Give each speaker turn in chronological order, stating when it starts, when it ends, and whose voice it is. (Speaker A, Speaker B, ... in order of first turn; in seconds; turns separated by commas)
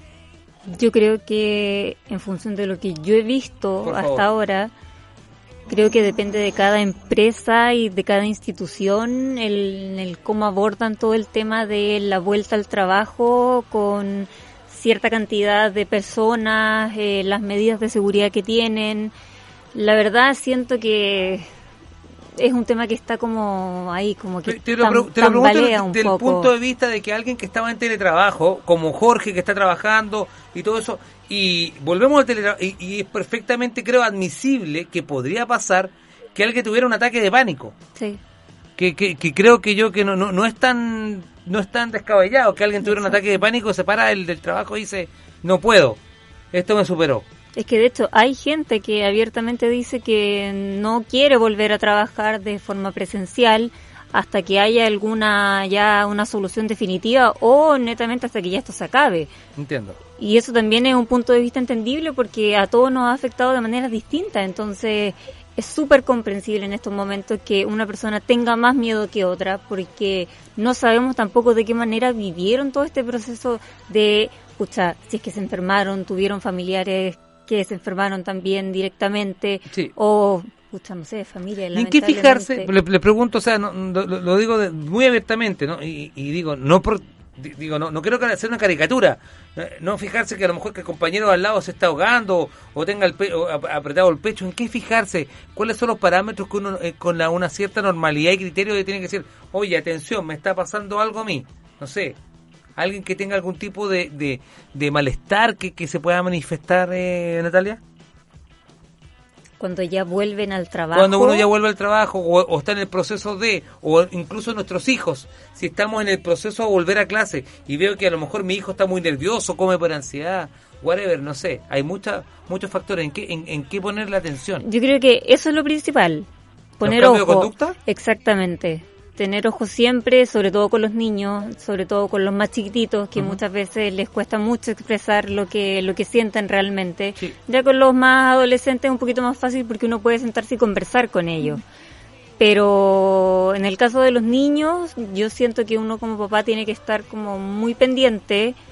Speaker A: 0.7-4.7, Speaker B: 3.8-4.2, Speaker A: 5.7-19.1, Speaker A: 19.7-21.5, Speaker A: 22.4-26.5, Speaker B: 24.5-37.7, Speaker B: 38.8-46.0, Speaker A: 42.8-43.2, Speaker B: 46.5-47.2, Speaker A: 47.6-59.3, Speaker B: 59.6-60.0, Speaker A: 60.2-82.7, Speaker B: 81.7-102.2, Speaker B: 102.8-107.8, Speaker A: 109.6-111.5, Speaker B: 110.9-124.6, Speaker A: 124.6-126.3, Speaker A: 126.8-141.6, Speaker B: 126.8-127.7, Speaker A: 142.4-148.6